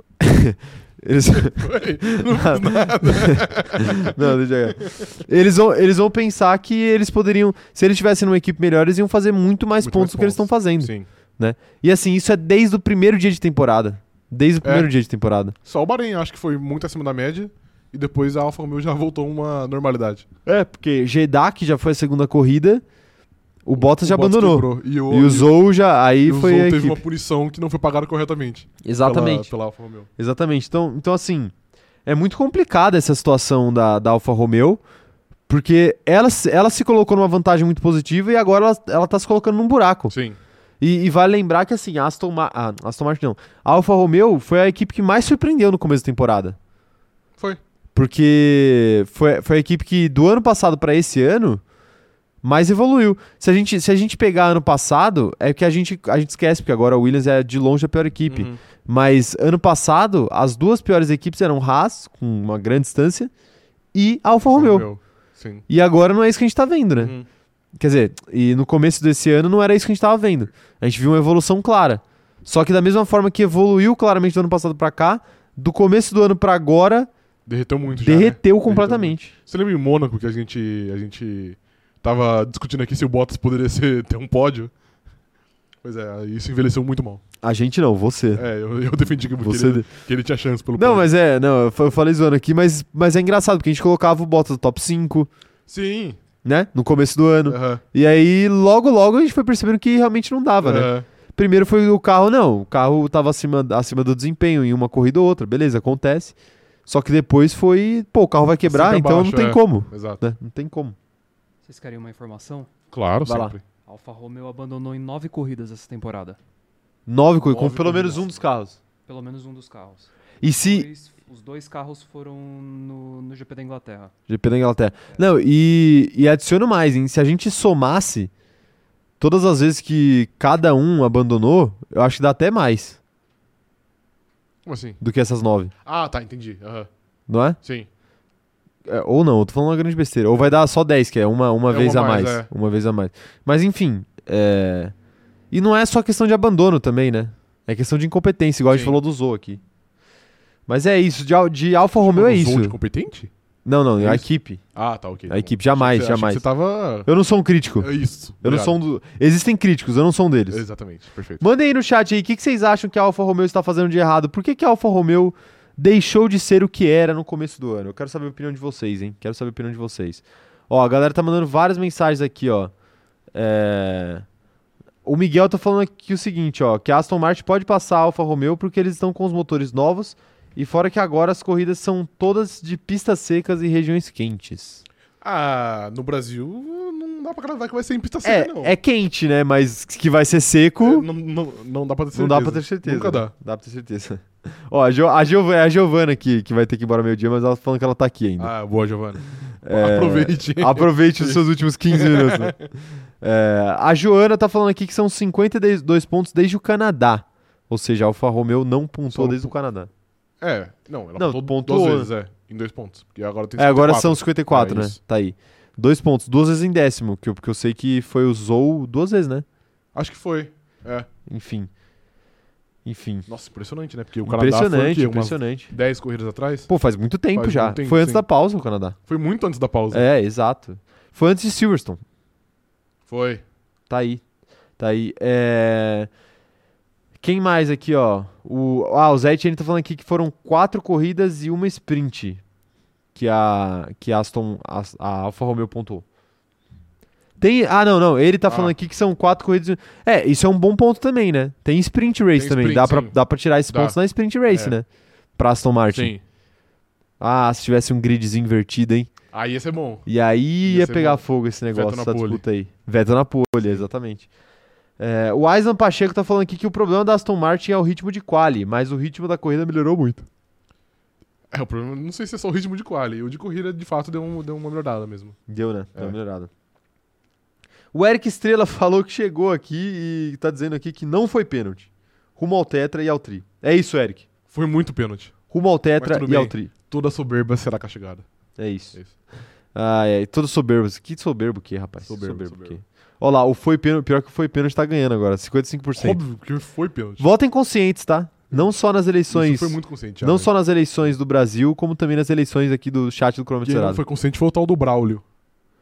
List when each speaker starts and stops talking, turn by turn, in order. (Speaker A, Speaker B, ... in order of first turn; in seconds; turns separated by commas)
Speaker A: 0.2-15.6, Speaker B: 1.3-5.1, Speaker B: 9.8-11.1, Speaker B: 14.6-14.9, Speaker B: 15.6-20.2, Speaker A: 20.4-22.8, Speaker A: 23.6-27.0, Speaker B: 23.8-25.5, Speaker B: 26.2-30.1, Speaker A: 28.8-29.5, Speaker A: 30.2-31.5, Speaker A: 32.0-34.8, Speaker A: 35.5-40.1, Speaker B: 40.1-40.4, Speaker A: 40.8-46.6, Speaker A: 47.9-51.6, Speaker A: 52.4-63.3, Speaker B: 58.3-58.6, Speaker A: 63.9-64.9, Speaker B: 64.5-65.6, Speaker A: 65.7-67.1, Speaker B: 67.0-67.3, Speaker A: 67.8-77.1, Speaker B: 77.5-84.7, Speaker A: 78.0-79.3, Speaker B: 85.8-87.2, Speaker A: 87.4-88.4, Speaker B: 88.3-91.1, Speaker A: 89.4-89.8, Speaker A: 90.8-95.3, Speaker B: 95.7-96.2, Speaker A: 96.4-106.3, Speaker B: 97.5-97.8, Speaker B: 100.6-101.0, Speaker A: 106.9-111.0, Speaker B: 108.6-110.2, Speaker C: 111.6-112.7, Speaker B: 112.9-113.6, Speaker A: 113.2-113.5, Speaker C: 113.8-116.4, Speaker A: 117.1-118.8, Speaker B: 117.4-118.3, Speaker C: 119.1-124.1, Speaker A: 120.4-120.9, Speaker A: 124.3-128.3, Speaker A: 129.2-133.0, Speaker B: 134.7-135.0, Speaker A: 135.0-135.7, Speaker B: 135.8-136.9, Speaker A: 137.3-137.6, Speaker B: 137.6-137.9, Speaker A: 138.8-144.9, Speaker B: 141.7-142.5, Speaker A: 145.5-149.6, Speaker B: 148.7-149.0, Speaker A: 150.7-152.8, Speaker B: 151.9-153.3, Speaker A: 153.6-154.6, Speaker B: 154.0-157.1, Speaker A: 155.3-156.4, Speaker A: 157.1-157.9, Speaker B: 157.8-158.8, Speaker A: 158.4-160.6, Speaker B: 160.5-161.4, Speaker A: 161.4-172.7, Speaker A: 173.3-174.2, Speaker A: 175.0-184.8, Speaker B: 185.2-188.8, Speaker A: 188.2-191.1, Speaker B: 190.8-193.3, Speaker A: 192.1-198.5, Speaker B: 198.4-202.7, Speaker A: 199.6-202.7, Speaker A: 203.2-209.9, Speaker B: 209.1-209.5, Speaker B: 210.4-215.0, Speaker A: 211.2-212.1, Speaker A: 213.6-219.4, Speaker B: 219.9-221.1, Speaker A: 221.3-221.7, Speaker A: 222.8-223.3, Speaker B: 223.3-226.7, Speaker A: 224.2-225.7, Speaker A: 226.7-229.0, Speaker B: 227.3-228.2, Speaker B: 229.1-230.0, Speaker A: 229.9-232.0, Speaker B: 233.1-233.4, Speaker A: 233.9-234.2, Speaker A: 234.8-236.1, Speaker A: 237.2-242.4, Speaker A: 243.1-246.0, Speaker A: 247.4-254.8, Speaker B: 248.5-248.7, Speaker B: 252.3-253.2, Speaker B: 253.7-254.0, Speaker B: 254.5-254.8, Speaker A: 255.4-256.1, Speaker B: 255.9-256.2, Speaker A: 257.2-259.1, Speaker B: 259.3-260.1, Speaker A: 260.1-264.3, Speaker B: 260.6-262.4, Speaker A: 265.0-270.2, Speaker B: 271.5-275.4, Speaker A: 275.5-276.5, Speaker A: 277.9-284.2, Speaker B: 284.5-285.3, Speaker A: 285.5-286.7, Speaker B: 286.0-288.2, Speaker A: 288.6-289.0, Speaker A: 289.7-296.2, Speaker B: 292.1-292.8, Speaker B: 296.0-297.3, Speaker A: 297.2-304.0, Speaker B: 299.3-300.5, Speaker B: 303.6-305.2